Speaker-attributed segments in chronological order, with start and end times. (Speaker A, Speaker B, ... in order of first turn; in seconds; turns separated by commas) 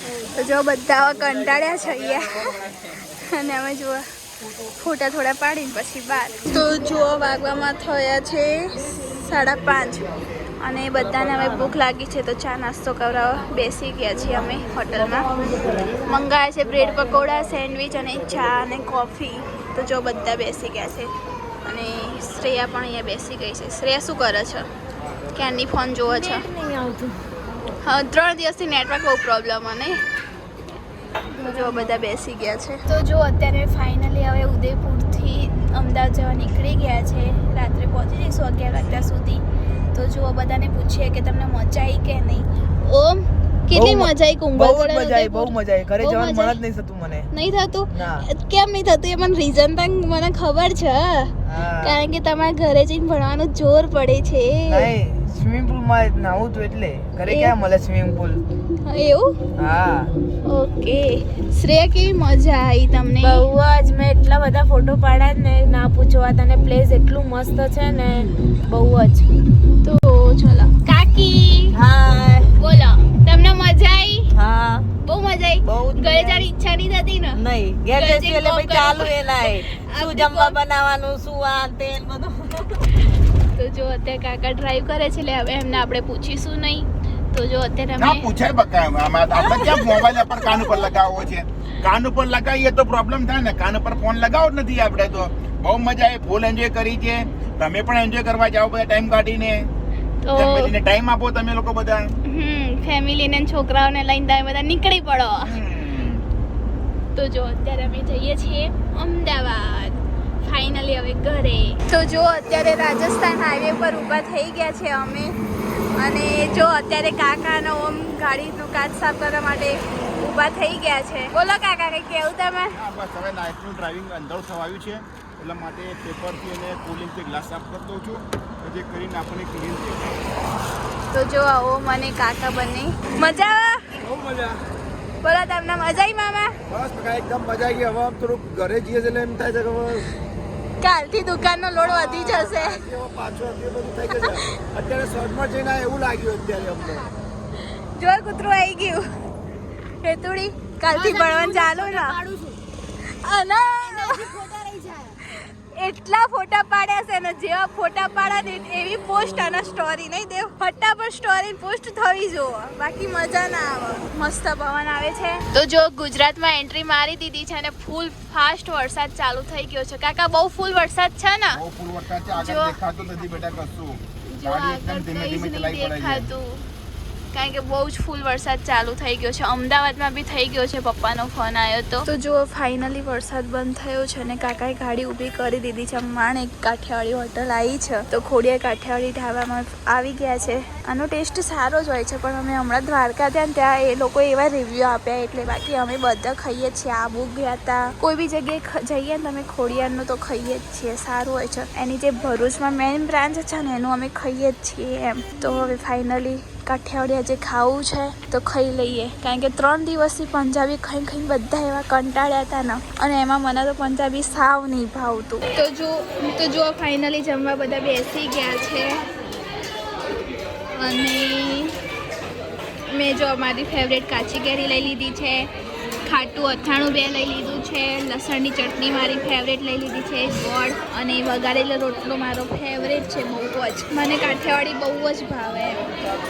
Speaker A: 0.3-4.0, Speaker A: 4.8-10.0, Speaker A: 10.6-15.3, Speaker A: 15.9-21.1, Speaker A: 21.6-24.6, Speaker A: 25.3-26.5, Speaker B: 26.1-27.1, Speaker A: 27.8-30.0, Speaker A: 31.3-39.4, Speaker A: 39.9-46.6, Speaker C: 43.7-47.3, Speaker A: 47.3-54.9, Speaker C: 47.9-48.3, Speaker C: 51.5-52.0, Speaker C: 54.7-58.4, Speaker A: 57.3-57.5, Speaker A: 58.8-59.3, Speaker C: 59.6-60.1, Speaker A: 60.5-63.5, Speaker B: 63.2-69.3, Speaker A: 69.8-71.8, Speaker B: 71.7-72.5, Speaker A: 72.5-74.3, Speaker B: 74.3-74.9, Speaker A: 75.0-77.4, Speaker B: 75.6-76.5, Speaker B: 77.3-82.8, Speaker A: 77.9-80.6, Speaker A: 83.5-88.3, Speaker D: 88.0-99.7, Speaker A: 89.5-90.1, Speaker A: 100.2-100.7, Speaker D: 100.3-102.1, Speaker A: 102.2-105.5, Speaker D: 105.4-106.2, Speaker A: 107.1-115.3, Speaker A: 116.0-122.8, Speaker D: 122.7-130.2, Speaker A: 131.1-134.0, Speaker A: 135.2-136.5, Speaker D: 136.7-139.8, Speaker E: 137.8-138.7, Speaker E: 139.4-139.8, Speaker A: 140.8-142.8, Speaker E: 143.0-144.1, Speaker D: 143.4-146.8, Speaker A: 144.2-144.5, Speaker E: 144.7-147.0, Speaker A: 147.9-149.0, Speaker A: 150.0-152.2, Speaker B: 150.9-152.6, Speaker A: 153.0-154.4, Speaker B: 153.8-155.2, Speaker A: 155.2-171.6, Speaker D: 171.5-176.3, Speaker A: 172.3-172.8, Speaker A: 174.3-176.6, Speaker A: 177.3-219.0, Speaker A: 220.7-221.8, Speaker A: 222.9-225.5, Speaker A: 226.0-235.9